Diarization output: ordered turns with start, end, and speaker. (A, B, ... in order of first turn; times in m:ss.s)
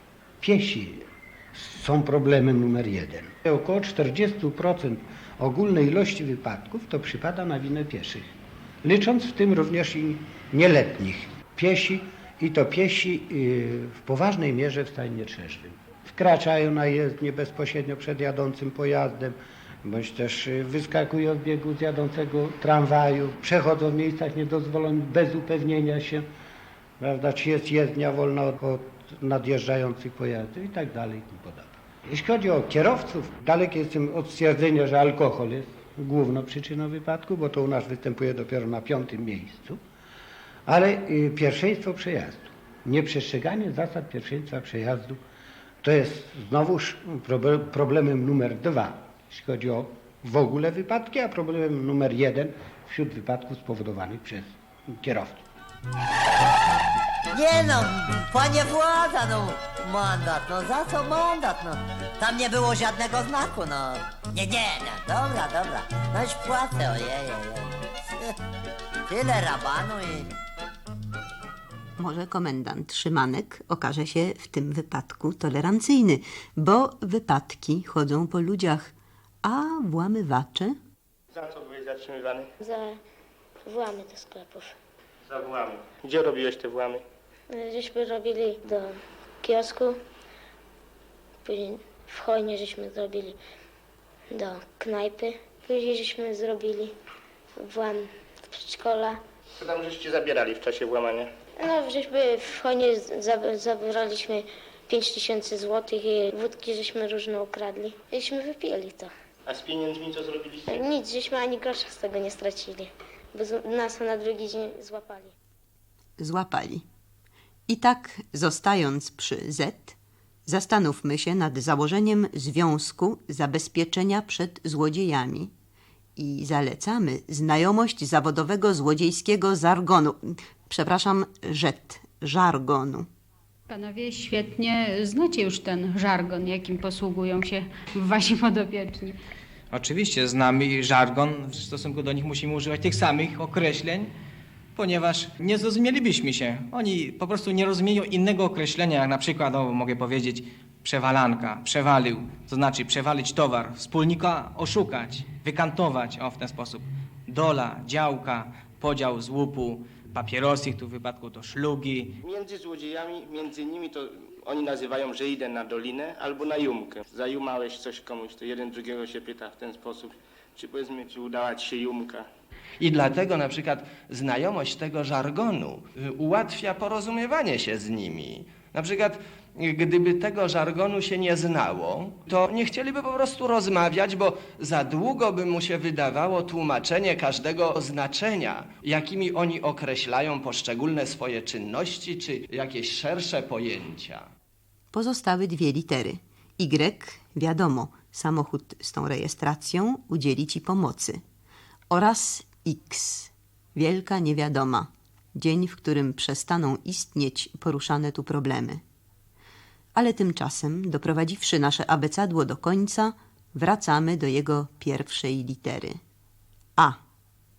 0:00.4-0:08.3 A
0:08.8-0:26.3 A
0:27.0-0:39.8 A
0:40.7-0:45.2 A
0:45.8-0:55.4 A
0:57.3-1:08.3 B
1:09.1-1:10.3 B
1:12.0-1:20.8 C
1:21.3-1:22.5 D
1:22.6-1:23.0 E
1:23.6-1:24.7 E
1:25.3-1:27.0 D
1:27.5-1:30.0 E
1:31.4-1:33.4 E
1:34.3-1:36.9 E
1:37.6-1:39.2 E
1:39.6-1:41.3 D
1:41.6-1:49.1 E
1:49.5-1:50.8 D
1:50.7-1:55.3 E
1:56.2-1:56.8 C
1:57.7-2:05.5 C
2:06.2-2:13.1 C
2:13.7-2:19.2 F
2:19.7-2:24.1 G
2:24.8-2:42.2 G
2:42.2-2:52.3 D
2:52.8-3:14.3 H
3:14.9-3:21.2 C
3:21.9-3:28.8 C
3:30.0-3:36.0 C